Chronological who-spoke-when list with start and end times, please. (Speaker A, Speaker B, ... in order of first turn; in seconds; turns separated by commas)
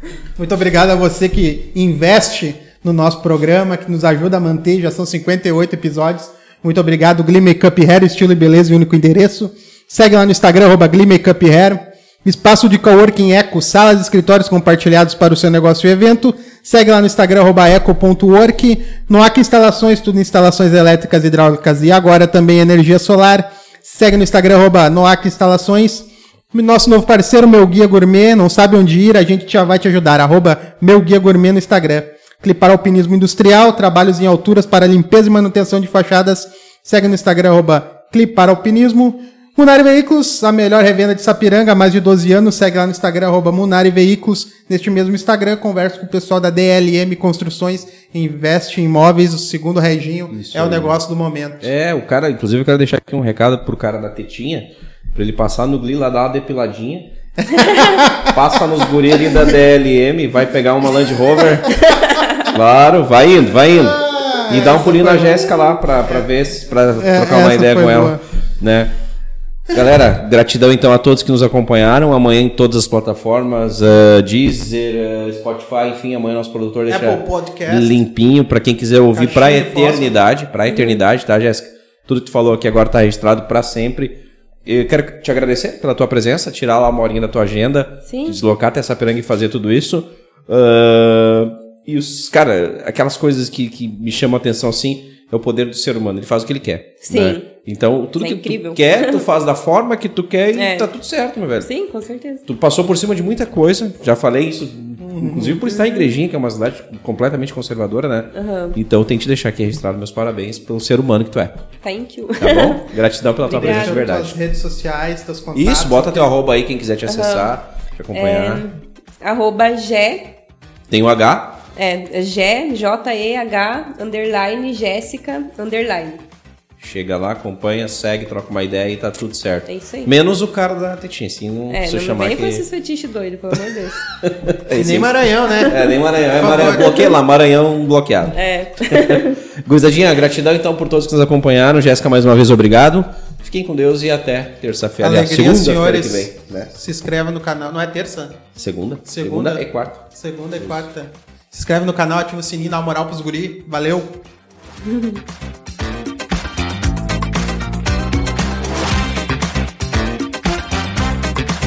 Speaker A: 0.3-51.7, Speaker B: 50.3-50.9, Speaker B: 51.6-57.1, Speaker A: 57.6-58.5, Speaker B: 58.2-61.8, Speaker A: 61.0-61.4, Speaker C: 61.8-62.5, Speaker B: 62.4-68.9, Speaker A: 63.7-66.3, Speaker A: 66.9-68.2, Speaker B: 69.7-101.7, Speaker A: 76.9-78.0, Speaker A: 79.1-80.2, Speaker C: 80.7-81.0, Speaker C: 88.0-88.4, Speaker C: 97.0-97.5, Speaker C: 98.2-99.2, Speaker C: 100.5-100.9, Speaker C: 101.6-102.4, Speaker B: 102.5-111.6, Speaker A: 105.0-106.0, Speaker C: 108.3-108.8, Speaker C: 111.8-112.8, Speaker B: 112.4-114.4, Speaker C: 113.4-114.0, Speaker A: 113.5-116.3, Speaker B: 115.5-118.6, Speaker C: 117.1-117.5, Speaker C: 118.1-120.3, Speaker B: 120.9-121.6, Speaker C: 121.7-126.2, Speaker B: 126.8-132.6, Speaker C: 129.7-130.1, Speaker C: 131.7-134.0, Speaker B: 134.1-146.7, Speaker A: 134.7-135.8, Speaker A: 136.3-137.1, Speaker C: 138.3-139.4, Speaker A: 145.0-148.4, Speaker B: 148.6-150.0, Speaker A: 149.1-154.2, Speaker B: 150.6-150.8, Speaker C: 154.8-155.2